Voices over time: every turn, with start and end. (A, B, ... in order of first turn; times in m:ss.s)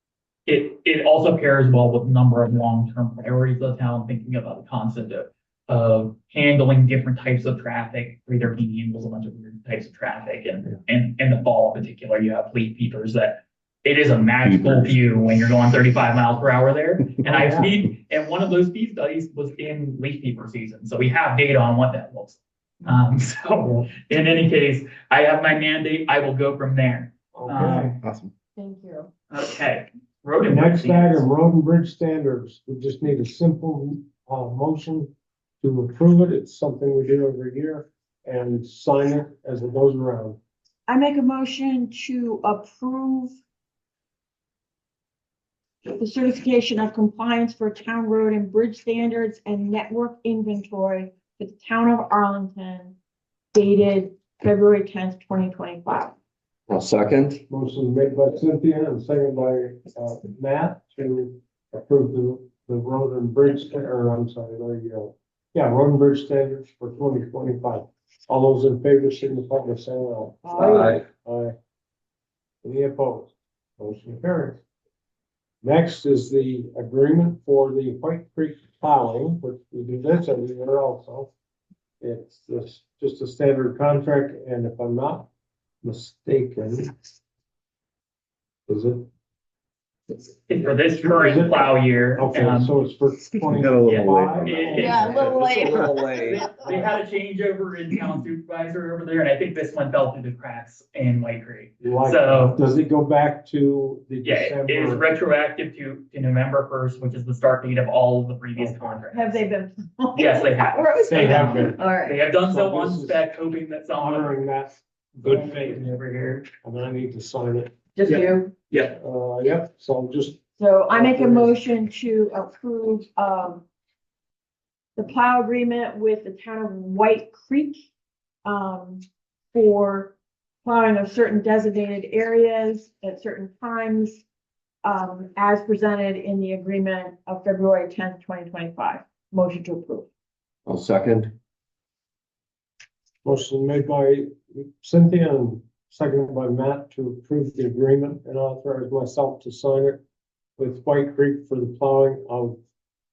0:00.5-0:28.0 A
0:14.4-0:14.9 B
0:17.2-0:17.8 C
0:23.6-0:23.9 C
0:27.3-0:28.0 C
0:28.0-0:28.3 B
0:28.6-0:29.1 D
0:29.3-0:31.3 A
0:30.5-0:40.4 C
0:40.9-0:43.4 D
0:45.9-0:53.0 D
0:53.5-0:56.1 D
0:56.7-0:57.4 B
0:57.5-1:11.5 C
1:10.4-1:10.9 D
1:10.6-1:11.0 B
1:12.6-1:14.6 C
1:15.6-1:21.3 C
1:22.0-1:25.3 C
1:25.8-1:27.1 C
1:28.7-1:29.1 C
1:30.3-1:32.7 A
1:30.8-1:35.0 C
1:33.5-1:36.4 B
1:33.8-1:35.5 A
1:34.8-1:36.8 D
1:36.1-1:42.6 A
1:41.8-1:45.1 C
1:44.2-1:49.4 A
1:48.6-1:49.1 C
1:49.1-1:52.2 D
1:50.2-1:54.4 A
1:51.1-1:51.8 C
1:52.4-1:53.3 C
1:54.0-1:55.9 C
1:55.2-1:56.4 A
1:56.4-1:57.7 C
1:58.0-1:58.5 D
1:58.1-1:59.0 A
1:59.0-2:00.4 C
2:00.6-2:03.6 D
2:00.9-2:01.6 C
2:05.0-2:07.9 D
2:08.4-2:14.2 D
2:14.8-2:20.1 D
2:20.7-2:21.3 B
2:23.2-2:30.0 C
2:30.6-2:32.6 C